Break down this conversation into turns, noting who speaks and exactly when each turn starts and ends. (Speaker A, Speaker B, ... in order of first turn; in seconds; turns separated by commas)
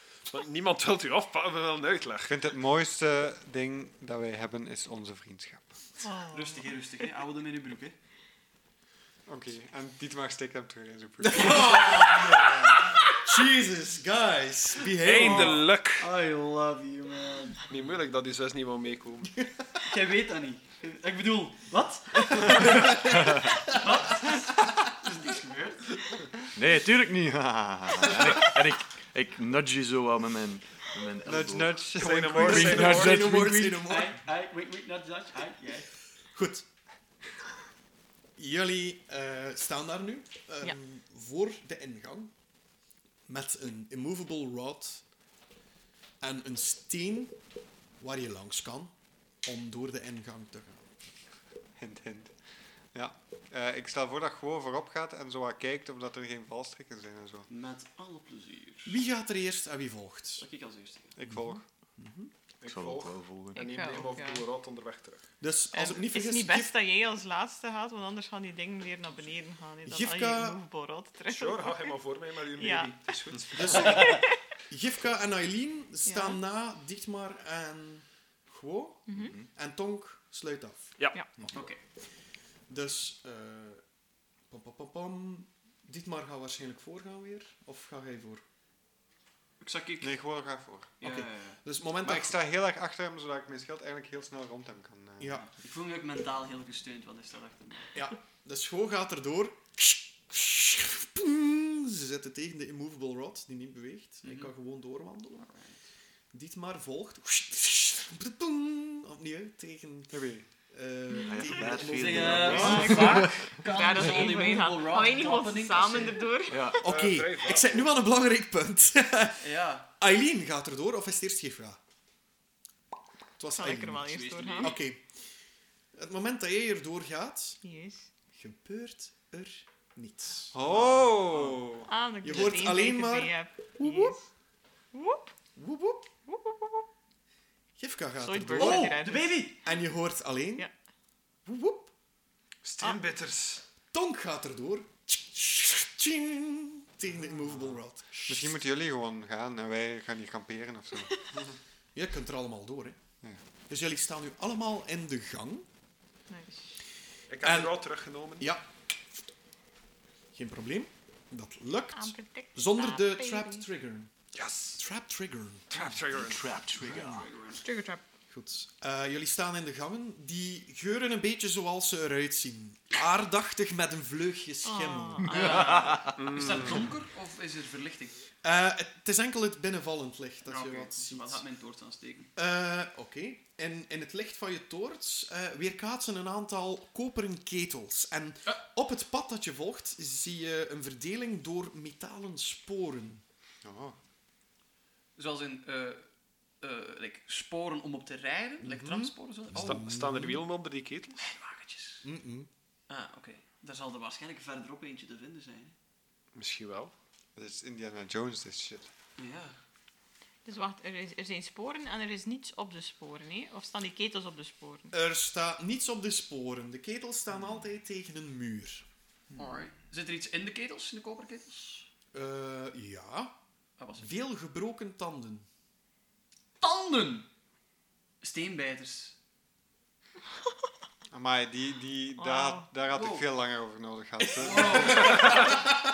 Speaker A: 0.3-2.4, Speaker B: 2.3-5.8, Speaker C: 6.0-6.7, Speaker D: 6.3-8.0, Speaker B: 9.3-11.9, Speaker E: 11.2-15.7, Speaker A: 15.0-16.1, Speaker D: 15.2-17.7, Speaker A: 17.7-19.3, Speaker D: 19.9-26.0, Speaker E: 22.3-23.0, Speaker F: 26.5-33.9, Speaker B: 31.2-33.2, Speaker A: 31.9-33.3, Speaker E: 32.6-34.2, Speaker D: 33.8-35.9, Speaker E: 36.3-36.6, Speaker E: 38.4-42.3, Speaker E: 43.3-45.0, Speaker E: 46.2-47.3, Speaker E: 48.0-48.9, Speaker E: 49.4-50.9, Speaker B: 51.8-52.4, Speaker B: 52.9-57.5, Speaker D: 57.5-59.0, Speaker E: 58.9-60.5, Speaker D: 60.4-61.1, Speaker B: 61.2-61.6, Speaker E: 62.0-62.3, Speaker A: 62.6-65.2, Speaker F: 62.6-63.8, Speaker C: 63.5-64.4, Speaker E: 65.4-66.8, Speaker C: 65.7-72.0, Speaker E: 69.9-70.6, Speaker A: 71.3-74.2, Speaker C: 72.5-74.4, Speaker E: 73.5-81.6, Speaker C: 76.1-76.4, Speaker C: 79.1-79.3, Speaker F: 79.2-79.5, Speaker A: 81.0-81.3, Speaker D: 81.5-81.8, Speaker E: 82.7-83.8, Speaker E: 84.5-88.4, Speaker D: 89.6-90.2, Speaker B: 90.0-90.9, Speaker D: 91.0-91.6, Speaker E: 91.0-92.3, Speaker B: 92.0-95.4, Speaker E: 95.2-95.5, Speaker D: 95.4-98.0, Speaker E: 98.0-105.5, Speaker D: 104.2-104.5, Speaker D: 105.4-105.8, Speaker E: 106.3-113.2, Speaker B: 110.1-110.5, Speaker F: 111.2-113.5, Speaker D: 111.5-116.3, Speaker C: 112.6-116.6, Speaker F: 116.5-116.9, Speaker A: 116.8-117.9, Speaker E: 116.8-121.8, Speaker D: 119.4-119.9, Speaker E: 123.4-125.1, Speaker C: 123.5-124.8, Speaker D: 124.0-124.8, Speaker E: 125.9-127.6, Speaker C: 127.6-128.1, Speaker E: 128.3-130.7, Speaker B: 130.5-131.9, Speaker D: 130.7-131.6, Speaker C: 131.9-134.2, Speaker E: 132.2-134.2, Speaker C: 134.9-135.3, Speaker E: 135.6-136.1, Speaker C: 136.3-136.9, Speaker E: 137.8-139.0, Speaker C: 138.2-139.4, Speaker D: 138.6-139.6, Speaker E: 139.6-140.7, Speaker E: 141.4-141.9, Speaker A: 142.6-143.6, Speaker E: 143.9-148.5, Speaker B: 148.2-151.1, Speaker E: 151.9-153.0, Speaker E: 153.7-155.7, Speaker C: 156.3-156.8, Speaker A: 157.3-158.5, Speaker E: 157.4-157.8, Speaker E: 158.4-158.7, Speaker E: 160.3-164.1, Speaker C: 161.9-163.7, Speaker A: 164.3-164.8, Speaker E: 164.8-165.8, Speaker A: 165.7-166.6, Speaker F: 165.9-167.3, Speaker D: 166.8-167.6, Speaker C: 167.6-168.0, Speaker E: 168.3-175.4, Speaker C: 174.6-176.1, Speaker D: 175.3-178.2, Speaker F: 175.6-176.2, Speaker A: 176.2-176.8, Speaker E: 178.4-181.4, Speaker D: 180.4-182.3, Speaker E: 182.4-193.2, Speaker B: 193.6-194.0, Speaker D: 195.2-196.1, Speaker D: 196.6-199.7, Speaker E: 198.6-200.4, Speaker A: 199.6-201.3, Speaker D: 201.2-202.1, Speaker E: 202.0-202.5, Speaker D: 202.9-205.8, Speaker A: 206.3-206.9, Speaker B: 207.4-208.9, Speaker D: 209.2-209.6, Speaker C: 210.4-214.9, Speaker E: 214.9-218.8, Speaker F: 219.3-219.6, Speaker D: 219.4-221.9, Speaker E: 222.1-223.3, Speaker D: 223.8-224.1, Speaker E: 224.0-225.5, Speaker D: 226.6-227.3, Speaker D: 228.2-229.2, Speaker B: 231.1-235.3, Speaker C: 232.2-232.7, Speaker D: 232.9-233.3, Speaker D: 234.3-235.6, Speaker A: 234.8-235.6